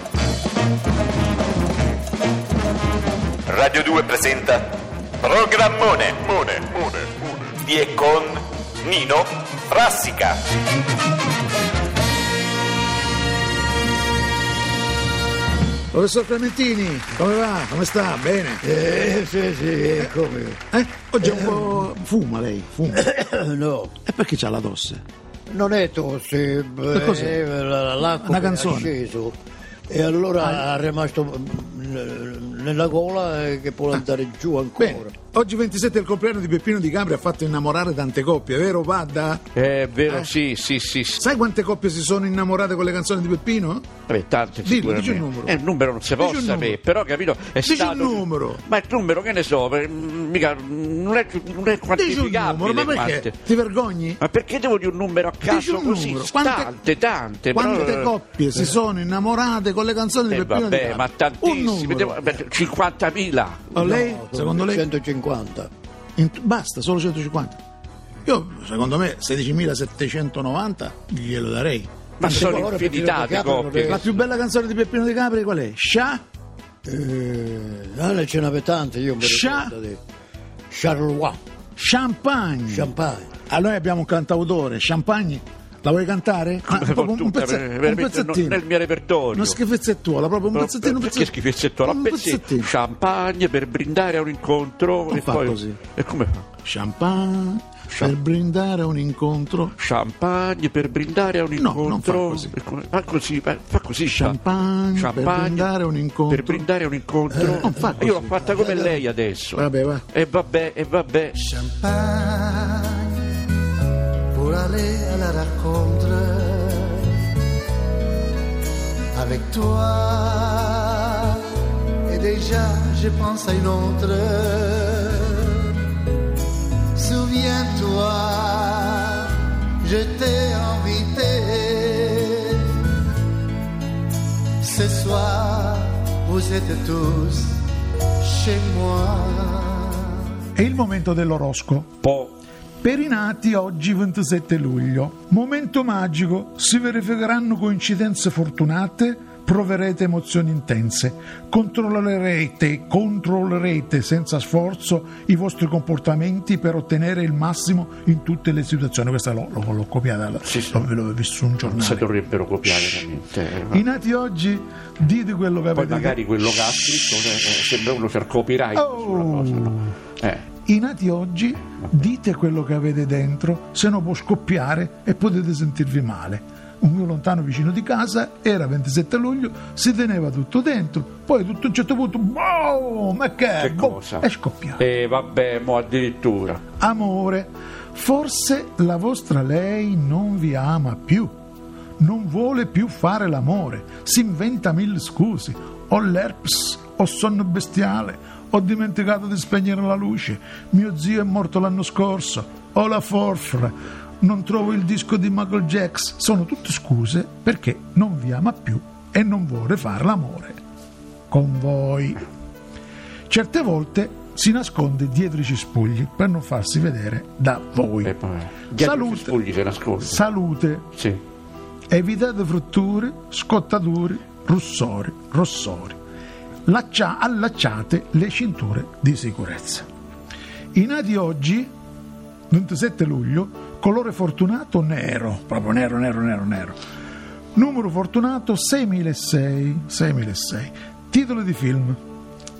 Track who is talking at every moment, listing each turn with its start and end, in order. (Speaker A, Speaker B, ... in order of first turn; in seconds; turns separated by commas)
Speaker A: 3.5-10.4, Speaker B: 15.9-18.6, Speaker C: 18.6-20.6, Speaker B: 20.7-23.0, Speaker C: 21.2-21.6, Speaker C: 22.9-23.9, Speaker B: 24.0-25.0, Speaker C: 25.5-29.4, Speaker B: 26.9-27.4, Speaker B: 28.2-28.9, Speaker C: 29.9-35.1, Speaker B: 34.8-39.4, Speaker D: 39.5-41.2, Speaker B: 41.2-43.9, Speaker D: 44.1-53.4, Speaker B: 44.6-45.6, Speaker B: 46.1-46.8, Speaker B: 47.6-48.6, Speaker B: 51.9-54.2, Speaker D: 54.2-58.1, Speaker B: 55.4-56.8, Speaker B: 57.5-62.4, Speaker D: 60.3-63.8, Speaker B: 63.7-64.8, Speaker C: 63.7-65.7, Speaker B: 66.2-67.6, Speaker B: 68.2-72.6, Speaker D: 72.2-73.9, Speaker C: 72.2-74.2, Speaker B: 73.8-76.2, Speaker C: 76.8-80.0, Speaker B: 79.2-79.8, Speaker C: 80.7-81.4, Speaker B: 81.8-82.9, Speaker C: 82.7-83.3, Speaker B: 83.5-88.6, Speaker D: 86.7-89.6, Speaker B: 89.3-92.7, Speaker D: 90.5-96.5, Speaker B: 95.1-95.8, Speaker B: 96.6-99.7, Speaker D: 99.8-104.4, Speaker B: 101.5-102.5, Speaker B: 104.0-106.7, Speaker D: 105.0-105.7, Speaker D: 106.3-111.4, Speaker B: 107.3-109.0, Speaker B: 109.5-110.0, Speaker E: 111.4-113.3, Speaker E: 114.3-117.3, Speaker E: 119.1-125.8, Speaker E: 127.0-132.8, Speaker E: 134.6-137.6, Speaker E: 138.2-140.3, Speaker B: 140.5-141.9, Speaker D: 142.0-142.3, Speaker B: 142.8-162.1, Speaker D: 160.4-160.8, Speaker D: 161.6-163.8, Speaker B: 162.7-163.0, Speaker B: 163.7-167.2, Speaker D: 165.7-170.4, Speaker B: 168.7-169.9, Speaker B: 170.7-184.8, Speaker D: 183.6-184.2, Speaker D: 184.8-186.6, Speaker B: 186.8-191.3, Speaker B: 192.0-210.6, Speaker B: 211.3-212.2, Speaker B: 213.3-218.1, Speaker D: 218.0-220.2, Speaker B: 218.8-219.3, Speaker B: 220.0-220.8, Speaker B: 221.9-226.0, Speaker B: 226.7-229.8, Speaker B: 230.7-231.7, Speaker B: 232.5-236.8, Speaker B: 237.5-242.0